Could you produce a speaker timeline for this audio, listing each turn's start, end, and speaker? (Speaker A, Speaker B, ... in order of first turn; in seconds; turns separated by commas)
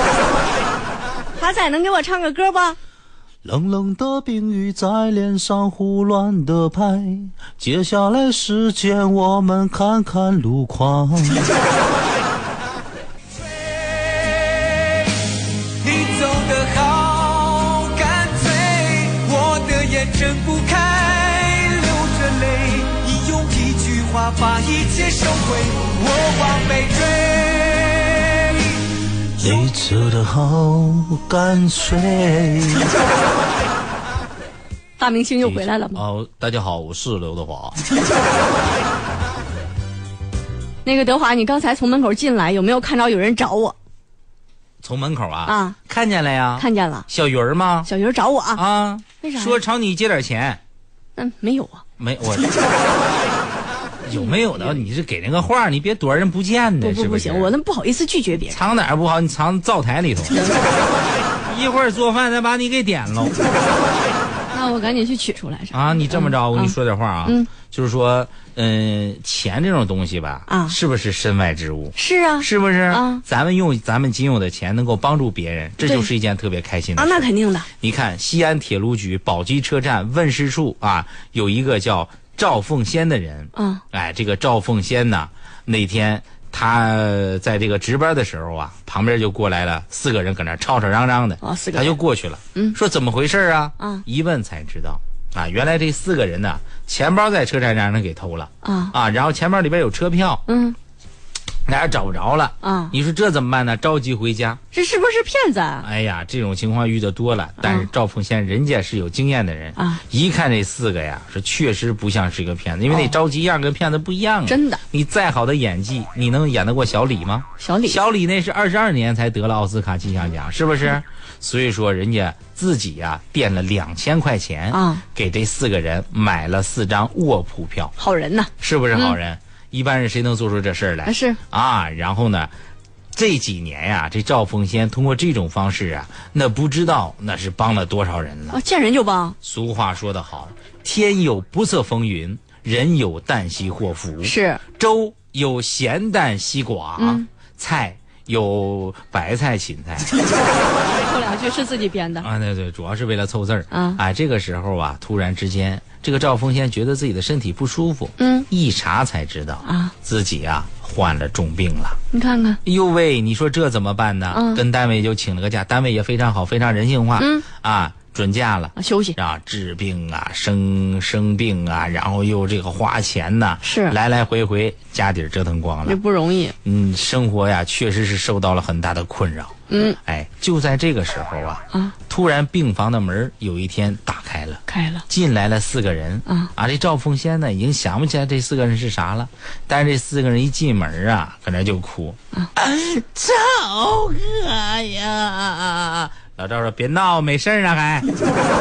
Speaker A: 1.4-2.8, Speaker B: 3.4-11.5, Speaker C: 15.8-27.4, Speaker B: 29.4-32.9, Speaker A: 35.0-36.0, Speaker B: 35.4-37.8, Speaker A: 40.8-43.8, Speaker B: 44.8-47.9, Speaker A: 45.5-45.8, Speaker A: 46.6-47.1, Speaker A: 47.9-48.6, Speaker B: 48.5-50.6, Speaker A: 49.2-49.6, Speaker A: 51.1-51.8, Speaker B: 52.0-52.5, Speaker B: 54.0-57.5, Speaker A: 54.1-54.8, Speaker A: 56.8-58.6, Speaker B: 58.5-60.4, Speaker A: 60.3-60.6, Speaker B: 61.5-63.4, Speaker A: 64.5-66.7, Speaker B: 65.7-77.3, Speaker A: 67.2-67.5, Speaker A: 70.5-70.8, Speaker A: 71.9-73.2, Speaker A: 75.8-76.1, Speaker A: 77.0-77.7, Speaker B: 77.8-100.4, Speaker A: 83.5-83.8, Speaker A: 91.4-92.0, Speaker A: 93.8-94.0, Speaker A: 98.6-98.9, Speaker A: 100.5-100.8, Speaker B: 101.7-104.6, Speaker A: 102.6-103.0, Speaker A: 104.7-105.9, Speaker B: 105.8-127.9, Speaker A: 107.6-107.9, Speaker A: 114.5-114.8, Speaker A: 117.6-118.0, Speaker A: 124.7-125.0, Speaker A: 128.0-129.2, Speaker B: 128.6-132.5, Speaker A: 131.0-131.4, Speaker B: 133.1-138.6, Speaker A: 138.5-139.3, Speaker B: 139.4-150.1, Speaker A: 144.2-144.6, Speaker A: 147.0-147.2, Speaker A: 150.8-152.3, Speaker B: 152.2-162.0, Speaker A: 153.7-154.0, Speaker A: 158.2-158.5, Speaker A: 159.6-159.9, Speaker A: 162.1-162.6, Speaker B: 162.6-176.0, Speaker A: 164.3-164.6, Speaker A: 167.2-167.4, Speaker A: 168.8-169.2, Speaker A: 173.6-173.9, Speaker A: 175.8-176.5, Speaker B: 176.6-198.1, Speaker A: 179.7-180.0, Speaker A: 184.7-185.0